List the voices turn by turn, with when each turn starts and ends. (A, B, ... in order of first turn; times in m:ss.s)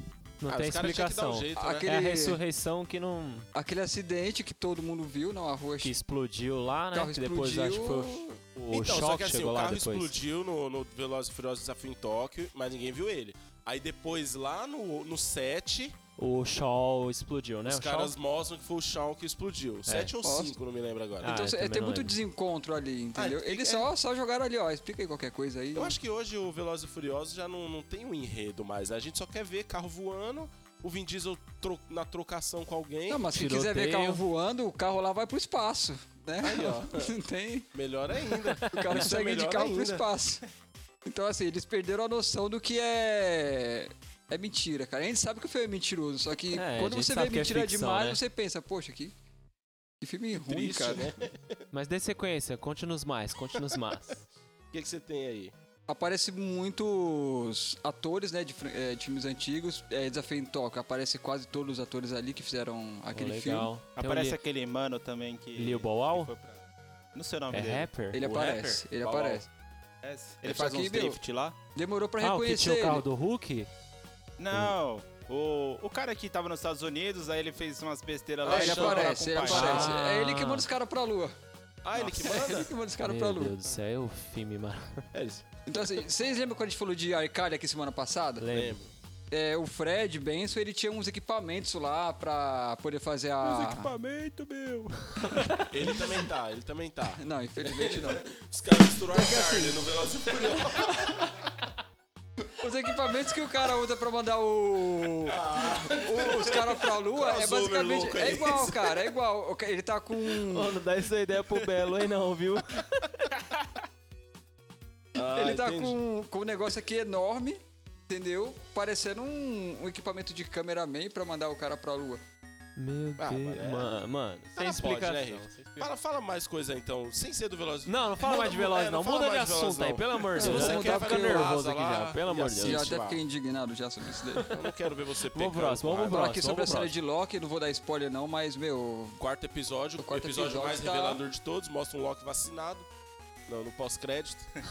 0:00.4-0:03.5 A
0:00.5-0:01.9 B
0:01.6-0:02.4 C
0:03.5-0:05.9 C
0:05.8-0:10.1 A
0:06.9-0:08.3 C
0:08.7-0:16.0 B
0:16.2-0:18.2 A
0:17.6-0:21.4 B
0:19.8-0:20.1 A
0:20.2-0:20.6 C
0:21.2-0:22.2 A
0:21.2-0:26.0 C
0:23.2-0:23.9 B
0:25.8-0:33.2 B
0:33.1-0:37.7 C
0:33.3-0:34.2 A
0:36.4-0:37.1 B
0:37.7-0:40.1 B
0:38.6-0:40.4 C
0:41.0-0:49.1 C
0:46.5-0:48.2 A
0:50.0-0:51.2 C
0:50.3-0:51.6 B
0:51.7-0:54.2 A
0:54.7-0:55.5 B
0:55.9-1:03.7 C
1:03.1-1:04.4 A
1:04.0-1:06.6 D
1:05.6-1:06.3 A
1:07.1-1:09.4 D
1:07.5-1:08.6 A
1:08.1-1:09.5 C
1:10.0-1:11.6 D
1:10.4-1:11.2 C
1:11.8-1:13.1 C
1:12.2-1:13.7 A
1:14.4-1:19.9 D
1:14.5-1:14.8 A
1:18.4-1:20.0 B
1:18.5-1:21.3 C
1:19.4-1:20.7 A
1:21.8-1:22.7 B
1:22.0-1:23.6 C
1:23.0-1:25.0 A
1:25.1-1:25.4 B
1:25.7-1:28.5 C
1:28.4-1:28.8 A
1:28.5-1:28.9 B
1:29.3-1:33.9 C
1:33.4-1:34.9 D
1:35.2-1:35.7 A
1:35.7-1:41.3 B
1:37.2-1:38.2 C
1:39.1-1:39.8 C
1:42.6-1:50.8 C
1:45.3-1:49.1 B
1:50.3-1:53.4 A
1:55.2-1:56.0 B
1:55.3-2:02.2 C
2:02.8-2:05.9 A
2:03.2-2:03.9 B
2:04.6-2:13.2 B
2:07.9-2:12.9 A
2:10.4-2:11.5 C
2:12.6-2:14.6 C
2:14.5-2:16.3 B
2:15.3-2:16.9 A
2:16.1-2:19.2 C
2:19.2-2:22.9 B
2:20.0-2:21.2 C
2:23.5-2:24.5 B